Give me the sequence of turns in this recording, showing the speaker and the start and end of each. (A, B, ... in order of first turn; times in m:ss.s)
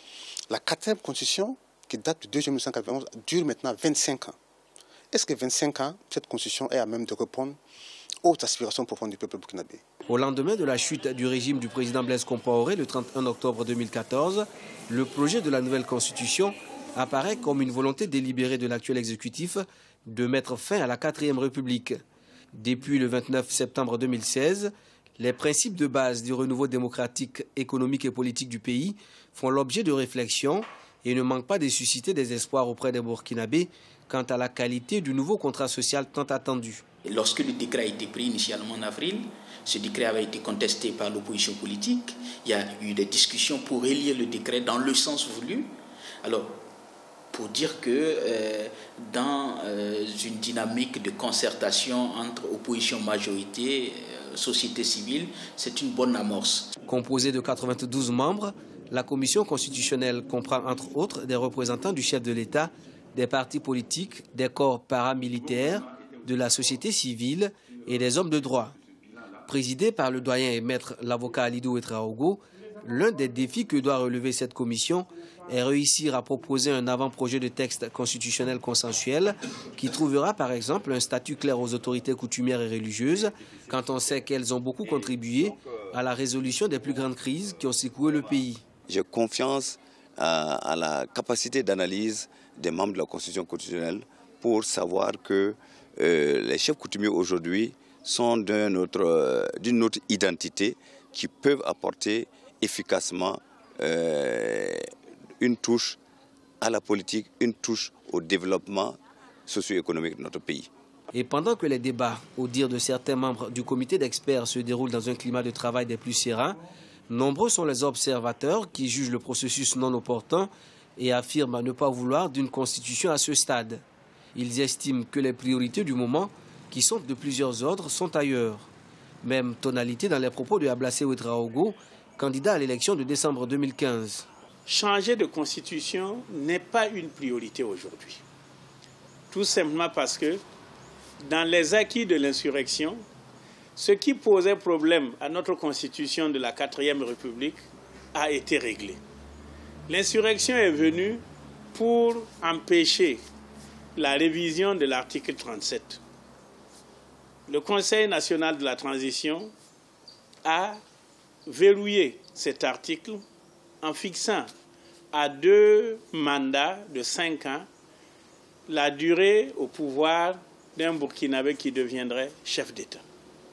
0:00.5-0:04.4 A
0:05.1-0:07.6 A
0:08.2-0:09.8 A
0:10.1-0:22.0 B
0:22.5-0:36.8 B
0:37.0-0:46.6 C
0:47.3-0:56.7 C
0:56.8-1:08.8 B
1:09.4-1:28.6 B
1:28.9-1:46.0 D
1:46.6-1:50.7 D
1:51.1-2:03.8 B
2:04.3-2:08.7 B
2:09.2-2:14.3 B
2:14.7-2:18.2 E
2:19.3-2:20.4 E
2:21.2-2:23.0 E
2:23.8-2:27.6 E
2:28.1-2:29.0 E
2:29.9-2:31.2 E
2:31.7-2:33.2 E
2:34.0-2:36.0 E
2:37.5-2:39.5 E
2:40.4-2:40.8 E
2:41.5-2:43.2 E
2:43.8-2:44.5 E
2:45.1-2:47.7 E
2:48.7-2:53.0 E